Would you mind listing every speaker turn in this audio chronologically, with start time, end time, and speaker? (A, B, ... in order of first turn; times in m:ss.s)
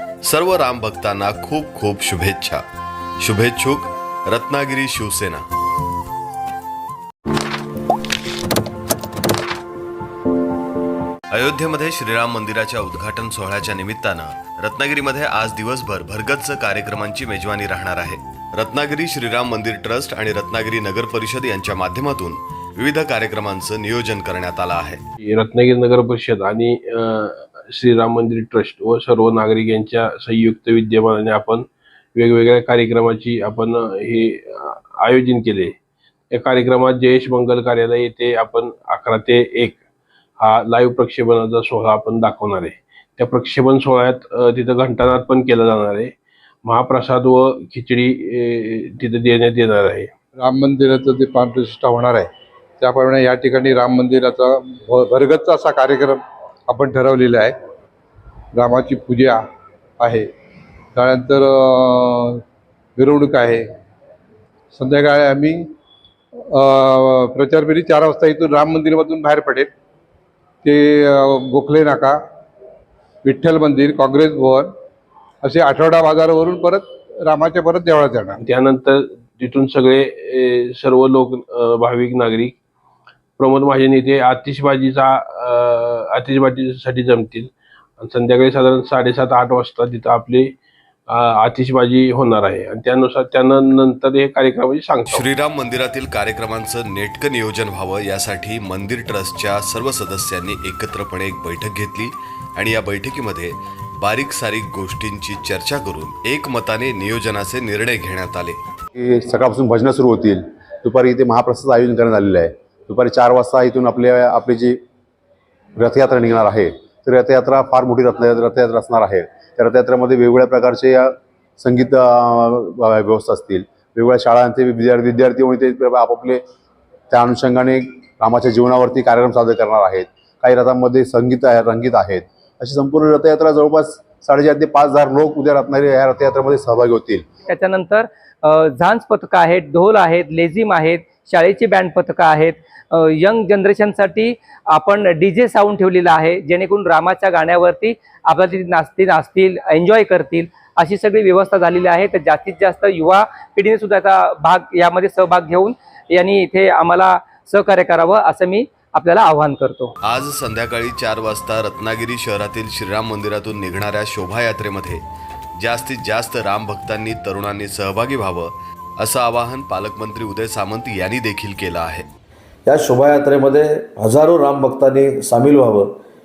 0:00.2-0:02.6 A
0:03.2-0:05.4 A
0:11.3-0:25.0 A
0:25.2-0:35.8 B
0:36.3-0:39.8 B
0:40.4-0:46.1 B
0:46.6-0:50.1 B
0:50.4-0:52.3 C
0:52.8-0:57.5 C
0:58.5-0:59.4 C
1:00.0-1:00.3 C
1:01.0-1:02.4 C
1:03.0-1:03.7 C
1:04.7-1:05.6 C
1:06.5-1:09.7 C
1:10.6-1:12.2 C
1:13.2-1:14.7 C
1:15.4-1:18.4 C
1:18.4-1:22.6 B
1:23.4-1:30.5 B
1:31.1-1:35.3 B
1:35.1-1:48.6 A
1:49.0-1:54.8 D
1:55.8-2:06.4 D
2:07.1-2:17.2 D
2:17.5-2:39.9 E
2:40.0-2:45.0 A
2:45.6-2:52.1 A
2:52.7-2:56.0 F